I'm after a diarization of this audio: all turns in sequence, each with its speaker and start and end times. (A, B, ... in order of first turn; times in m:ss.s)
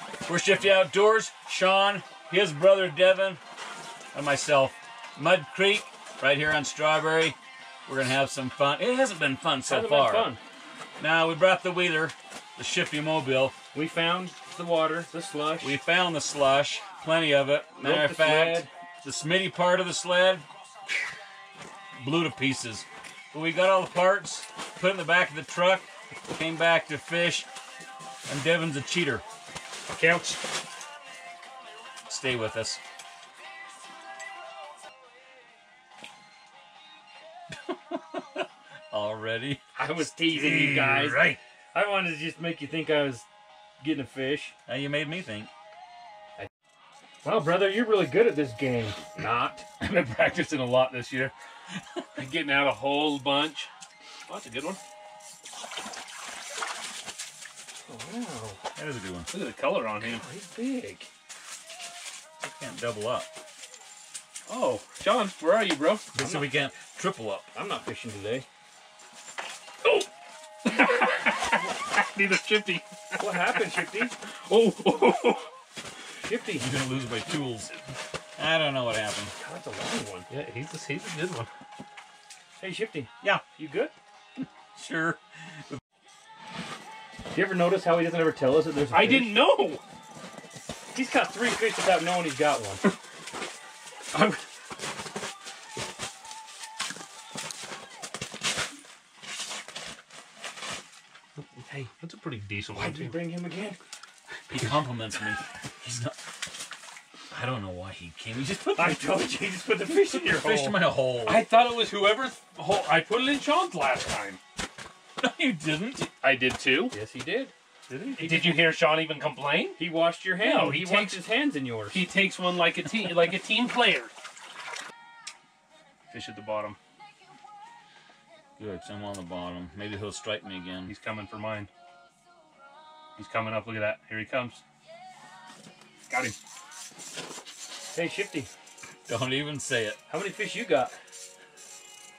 0:00.2-0:03.4 A
0:04.1-0:10.3 A
0:09.6-0:10.4 B
0:11.0-0:13.5 A
0:13.7-0:15.8 B
0:15.6-0:20.4 A
0:17.8-0:18.7 B
0:22.0-0:27.5 A
0:28.3-0:29.2 A
0:29.9-0:30.4 C
0:32.1-0:32.8 A
0:37.5-0:39.6 A
0:39.8-0:43.2 B
0:40.2-0:41.4 A
0:43.8-0:44.5 B
0:44.7-0:45.5 A
0:47.2-0:49.6 B
0:49.8-0:51.3 C
0:52.2-0:53.7 C
0:54.3-0:54.8 C
0:57.9-0:58.6 B
0:58.8-0:59.3 A
0:59.3-1:00.3 C
1:00.0-1:01.1 B
1:02.4-1:03.3 A
1:04.5-1:06.1 C
1:06.1-1:07.5 A
1:06.2-1:06.5 B
1:07.5-1:08.5 B
1:10.6-1:15.5 C
1:13.2-1:14.1 B
1:16.2-1:16.7 B
1:16.5-1:17.7 A
1:18.4-1:19.3 A
1:19.3-1:20.3 B
1:20.3-1:21.5 C
1:22.6-1:23.9 B
1:24.7-1:25.8 A
1:27.3-1:29.4 B
1:28.9-1:29.8 C
1:30.9-1:32.8 B
1:34.1-1:34.4 C
1:41.7-1:43.2 C
1:42.7-1:43.8 B
1:44.5-1:46.2 A
1:47.3-1:49.2 A
1:48.7-1:50.8 B
1:50.1-1:51.4 A
1:51.2-1:54.4 C
1:55.2-1:56.1 A
1:56.2-1:56.9 C
1:56.9-1:57.5 B
1:57.9-1:59.8 C
1:58.0-1:58.6 B
1:59.8-2:02.0 B
2:00.4-2:01.2 C
2:01.9-2:04.1 C
2:06.1-2:06.8 C
2:08.6-2:10.9 A
2:10.8-2:11.7 C
2:13.2-2:14.6 C
2:16.1-2:16.4 C
2:17.9-2:18.5 B
2:19.1-2:20.0 A
2:20.1-2:20.9 B